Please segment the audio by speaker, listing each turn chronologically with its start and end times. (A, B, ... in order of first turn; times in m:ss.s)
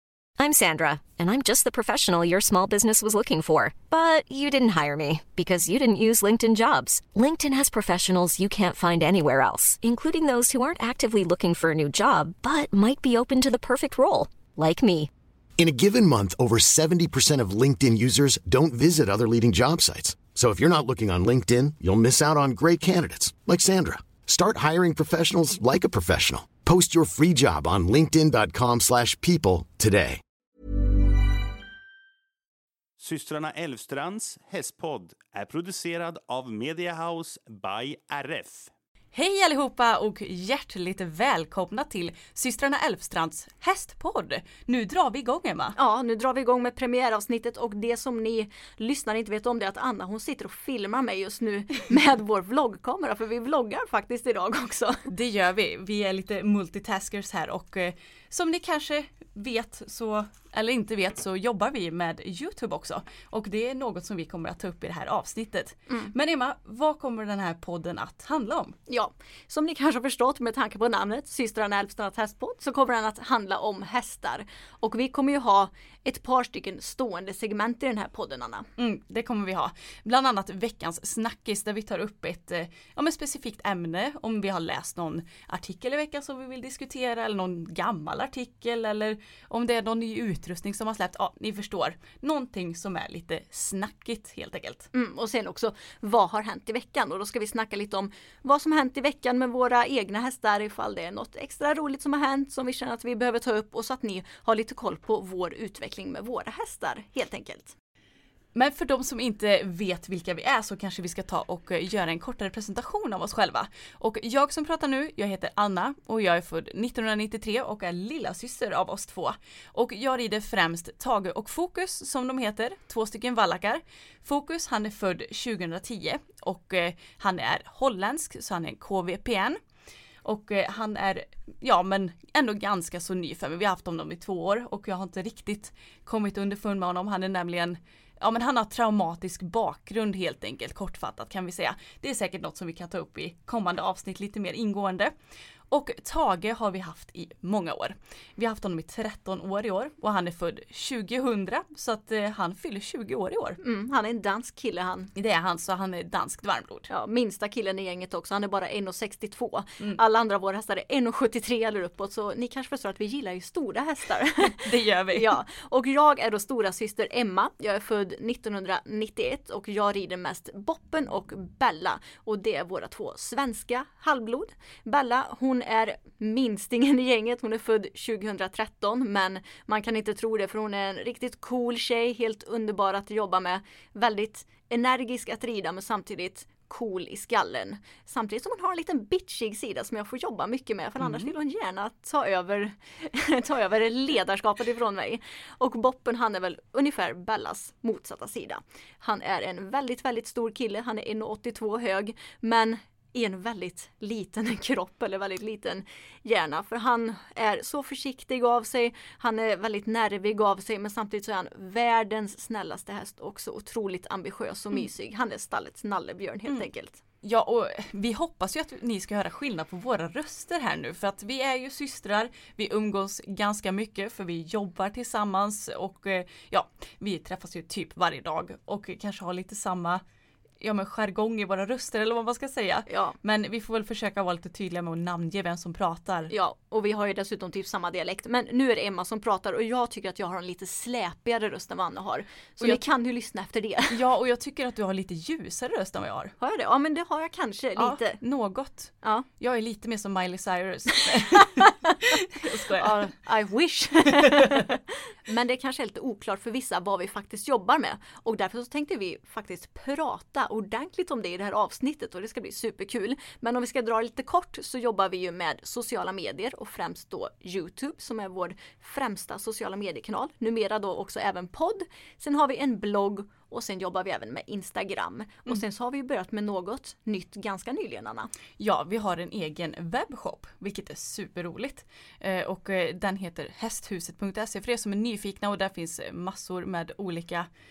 0:00.4-0:15.1 A
0:15.6-0:30.2 B
0:33.0-0:38.7 C
0:39.1-0:45.8 D
0:45.8-0:55.0 E
0:55.1-1:08.8 D
1:08.9-1:18.6 E
1:18.8-1:34.9 D
1:34.9-1:47.7 E
1:48.5-2:09.6 D
2:10.2-2:25.1 D
2:25.7-2:33.6 D
2:33.6-2:35.1 E
2:35.1-2:36.9 D
2:36.9-3:37.0 E
2:44.6-2:45.4 D
3:11.0-3:11.3 D
3:37.2-3:50.0 D
3:50.6-3:56.3 D
3:52.9-3:53.2 E
3:56.3-4:04.0 E
4:03.9-4:06.3 D
4:06.4-4:08.2 E
4:07.8-4:13.1 D
4:11.0-4:12.2 E
4:12.8-4:38.3 E
4:38.6-4:47.5 D